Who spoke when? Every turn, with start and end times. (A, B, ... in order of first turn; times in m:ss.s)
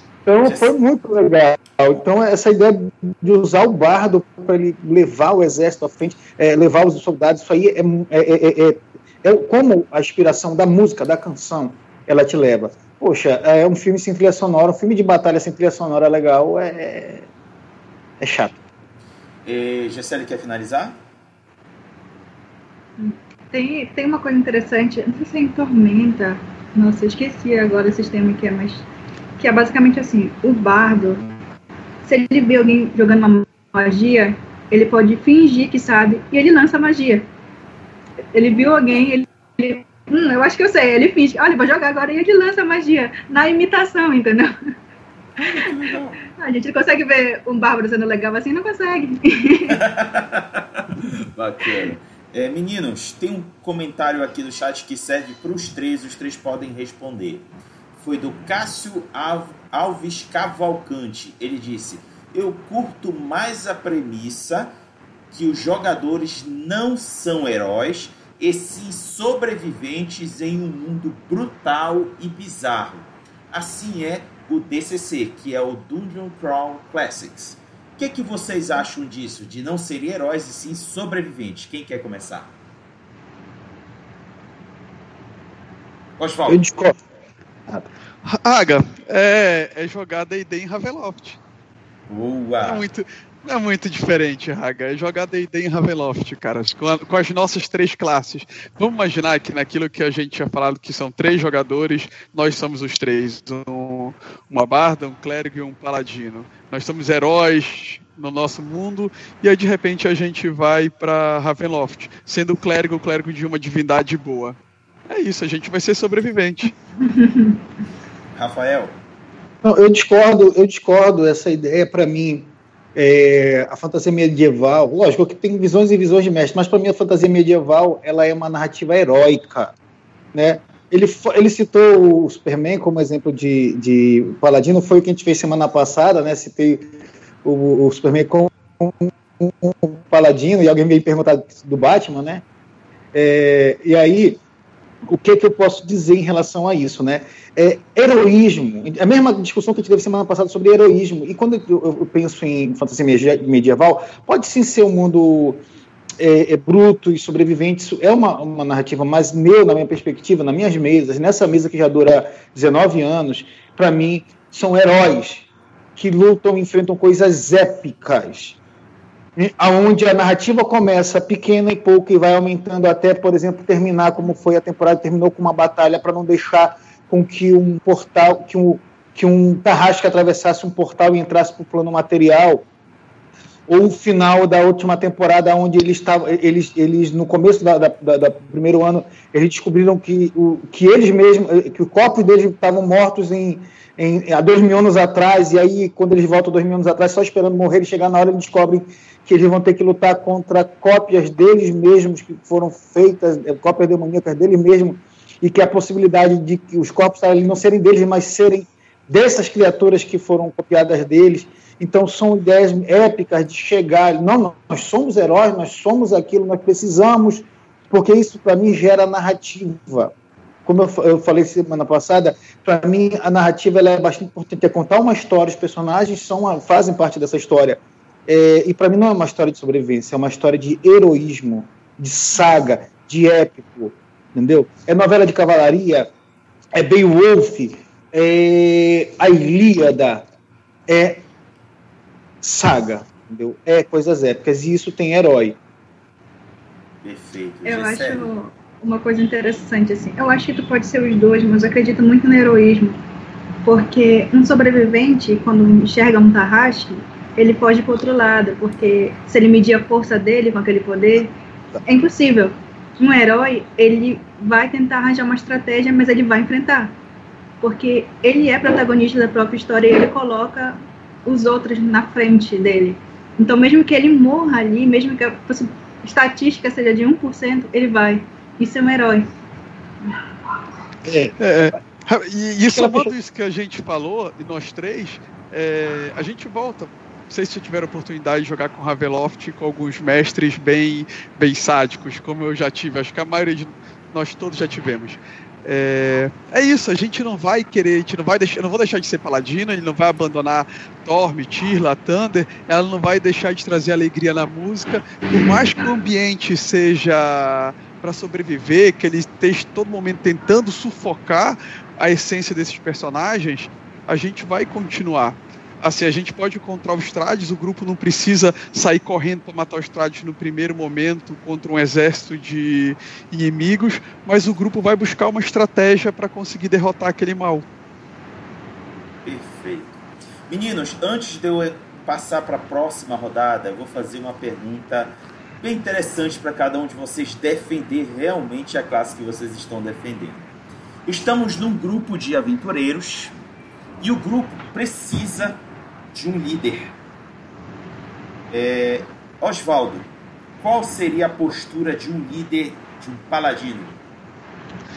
0:00.3-0:17.3 A
0:00.4-0:00.7 B
0:18.2-0:18.6 A
0:19.5-0:21.0 B
0:23.0-0:28.8 C
0:29.4-0:31.2 C
0:32.0-0:37.3 C
0:38.3-0:44.5 C
0:45.4-0:46.2 B
0:46.3-0:49.8 C
0:49.7-0:57.5 B
0:58.0-1:04.7 B
1:05.3-1:22.5 B
1:26.2-1:26.9 B
1:26.5-1:27.0 A
1:28.3-1:31.4 D
1:32.1-1:32.8 B
1:32.6-1:54.6 D
1:55.1-1:56.8 D
1:57.0-1:57.6 C
1:58.4-1:59.0 B
1:59.6-2:09.7 A
2:10.3-2:16.9 A
2:17.4-2:22.4 A
2:23.1-2:24.4 A
2:25.0-2:35.6 A
2:36.2-2:48.6 A
2:49.4-3:02.6 A
3:03.7-3:40.1 A
3:40.7-3:56.1 A
3:56.7-4:00.2 A
4:00.9-4:01.2 A
4:02.4-4:05.6 A
4:07.0-4:08.3 B
4:07.6-4:13.0 C
4:13.6-4:27.0 C
4:27.6-4:39.3 C
4:41.0-4:41.4 A
4:41.4-5:27.6 D
4:42.7-4:43.1 A
5:29.2-5:30.0 B
5:30.5-5:40.5 B
5:41.1-5:43.4 B
5:44.0-5:45.6 B
5:46.1-5:46.9 B
5:48.5-5:50.1 B
5:50.6-5:54.0 B